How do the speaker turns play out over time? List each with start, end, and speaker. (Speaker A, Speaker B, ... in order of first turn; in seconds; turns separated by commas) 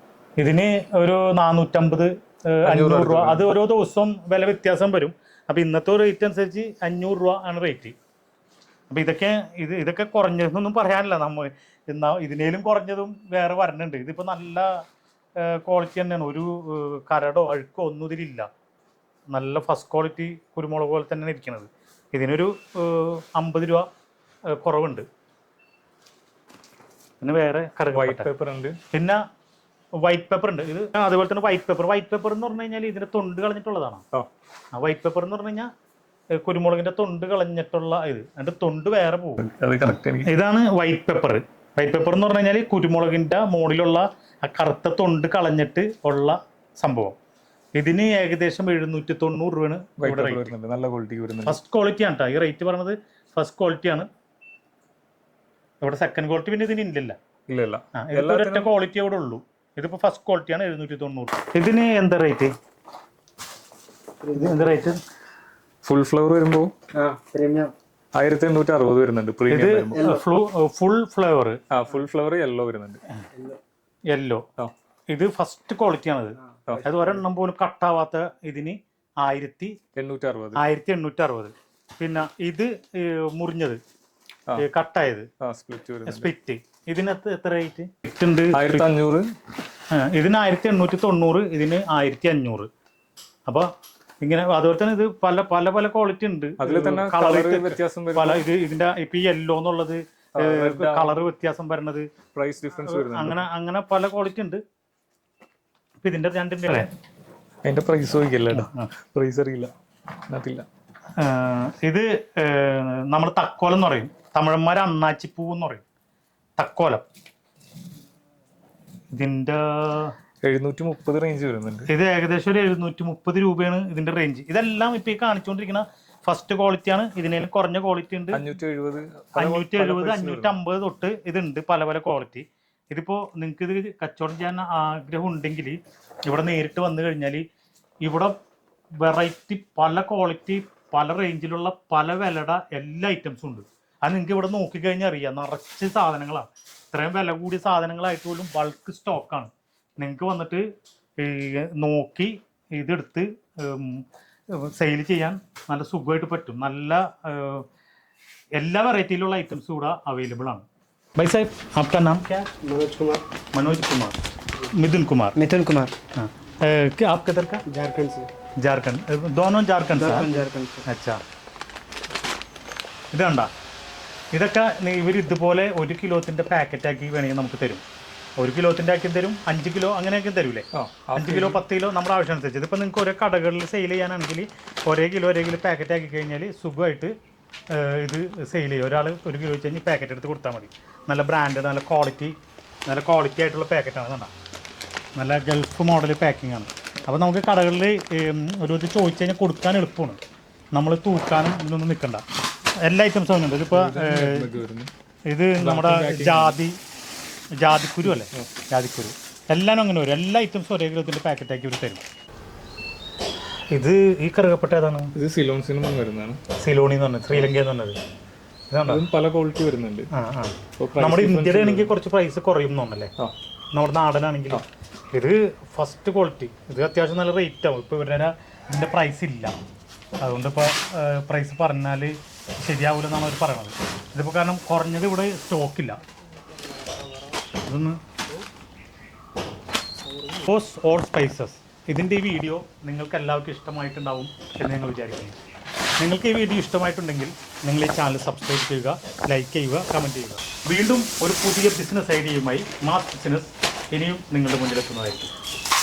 Speaker A: 0.4-8.0, Speaker B: 2.7-3.5, Speaker A: 8.9-14.8, Speaker A: 15.4-18.5, Speaker A: 19.3-23.9, Speaker A: 24.5-25.1, Speaker A: 27.2-28.3, Speaker B: 27.9-28.8, Speaker A: 28.9-29.2, Speaker A: 30.0-34.0, Speaker A: 34.7-35.7, Speaker A: 36.4-39.5, Speaker B: 39.4-40.3, Speaker A: 40.2-47.2, Speaker A: 47.8-50.5, Speaker B: 50.0-51.6, Speaker A: 51.5-54.1, Speaker A: 55.8-57.2, Speaker B: 57.5-58.7, Speaker A: 58.0-62.5, Speaker C: 64.2-64.7, Speaker A: 64.3-65.0, Speaker B: 65.8-66.7, Speaker C: 67.0-67.7, Speaker B: 68.2-70.2, Speaker A: 69.5-71.6, Speaker B: 71.7-73.0, Speaker A: 74.1-74.5, Speaker A: 75.1-79.8, Speaker B: 79.9-80.6, Speaker A: 80.6-83.8, Speaker A: 84.6-85.3, Speaker B: 85.4-86.3, Speaker A: 86.1-88.9, Speaker B: 88.5-89.3, Speaker A: 89.9-92.7, Speaker A: 94.2-102.1, Speaker B: 96.6-98.4, Speaker B: 100.4-101.2, Speaker B: 102.3-103.5, Speaker A: 102.8-104.6, Speaker A: 106.0-106.9, Speaker B: 107.7-109.7, Speaker A: 108.5-108.9, Speaker B: 110.3-110.7, Speaker A: 111.2-115.8, Speaker A: 116.6-117.0, Speaker A: 119.1-120.2, Speaker B: 120.4-121.9, Speaker A: 121.9-128.4, Speaker B: 128.3-130.6, Speaker A: 129.3-137.4, Speaker A: 138.0-138.3, Speaker A: 139.0-150.7, Speaker A: 151.2-157.7, Speaker A: 158.6-162.5, Speaker C: 162.6-163.2, Speaker A: 163.5-165.4, Speaker C: 165.4-165.9, Speaker A: 166.2-167.6, Speaker C: 167.7-168.3, Speaker A: 168.6-170.3, Speaker C: 169.9-170.8, Speaker A: 170.9-171.2, Speaker A: 173.1-173.5, Speaker A: 174.3-177.8, Speaker A: 178.4-187.1, Speaker B: 180.7-181.6, Speaker A: 187.7-192.3, Speaker A: 192.9-194.3, Speaker A: 195.2-200.2, Speaker A: 200.7-202.2, Speaker A: 202.8-204.5, Speaker B: 203.7-204.9, Speaker A: 205.3-206.8, Speaker B: 205.6-206.6, Speaker A: 207.6-212.0, Speaker B: 208.0-208.5, Speaker A: 213.7-215.1, Speaker B: 215.2-216.4, Speaker A: 216.6-218.0, Speaker A: 218.7-219.0, Speaker B: 218.9-220.1, Speaker A: 220.1-223.1, Speaker B: 220.8-221.9, Speaker A: 223.7-229.5, Speaker A: 230.2-236.0, Speaker A: 237.7-238.0, Speaker A: 240.4-245.4, Speaker A: 246.0-255.3